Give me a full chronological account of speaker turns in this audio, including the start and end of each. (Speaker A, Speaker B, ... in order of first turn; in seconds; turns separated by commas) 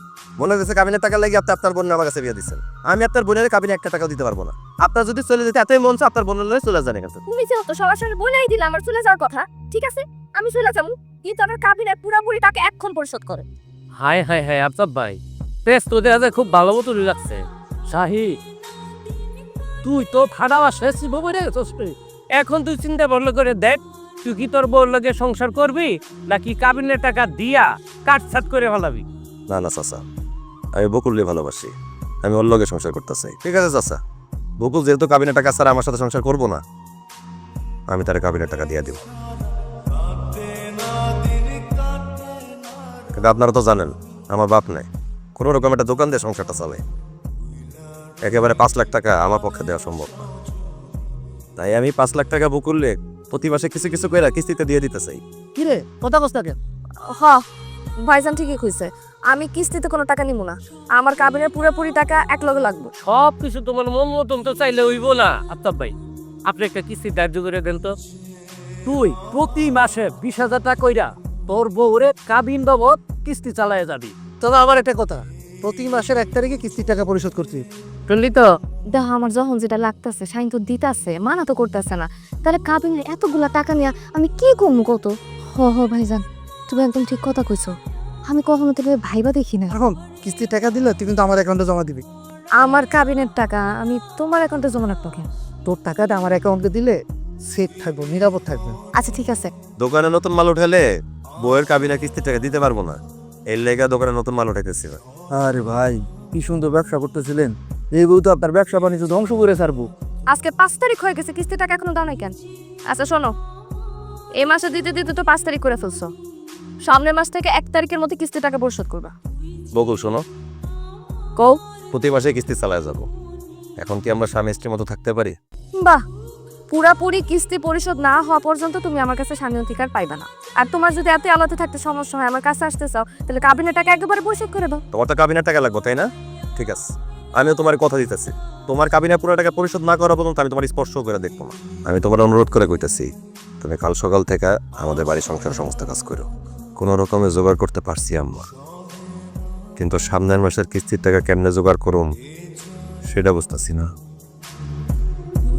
Speaker A: 0.4-7.2, Speaker B: 7.3-13.4, Speaker C: 14.0-18.4, Speaker C: 19.8-29.1, Speaker A: 29.5-30.0, Speaker A: 30.8-31.7, Speaker A: 32.3-34.0, Speaker A: 34.6-36.6, Speaker A: 37.9-39.0, Speaker A: 43.2-44.9, Speaker A: 45.4-46.8, Speaker A: 48.3-50.3, Speaker A: 51.6-55.2, Speaker D: 55.6-56.6, Speaker B: 57.1-57.4, Speaker B: 58.1-62.9, Speaker C: 63.0-65.9, Speaker C: 66.5-67.9, Speaker C: 68.9-74.1, Speaker D: 74.5-76.9, Speaker B: 78.1-87.7, Speaker B: 88.3-89.7, Speaker D: 89.7-92.0, Speaker B: 92.6-95.3, Speaker D: 95.7-96.9, Speaker D: 97.7-98.8, Speaker B: 99.0-99.5, Speaker A: 99.8-100.8, Speaker A: 101.5-103.0, Speaker A: 103.5-105.0, Speaker D: 105.8-109.8, Speaker B: 110.3-112.3, Speaker B: 112.9-113.3, Speaker B: 114.4-116.1, Speaker B: 116.8-119.1, Speaker A: 119.8-120.2, Speaker A: 121.9-123.1, Speaker A: 123.8-125.3, Speaker B: 126.7-134.8, Speaker A: 134.9-136.1, Speaker A: 136.6-136.8, Speaker A: 137.4-143.1, Speaker A: 143.6-146.3, Speaker A: 146.8-148.4, Speaker A: 149.8-152.1, Speaker A: 153.1-153.8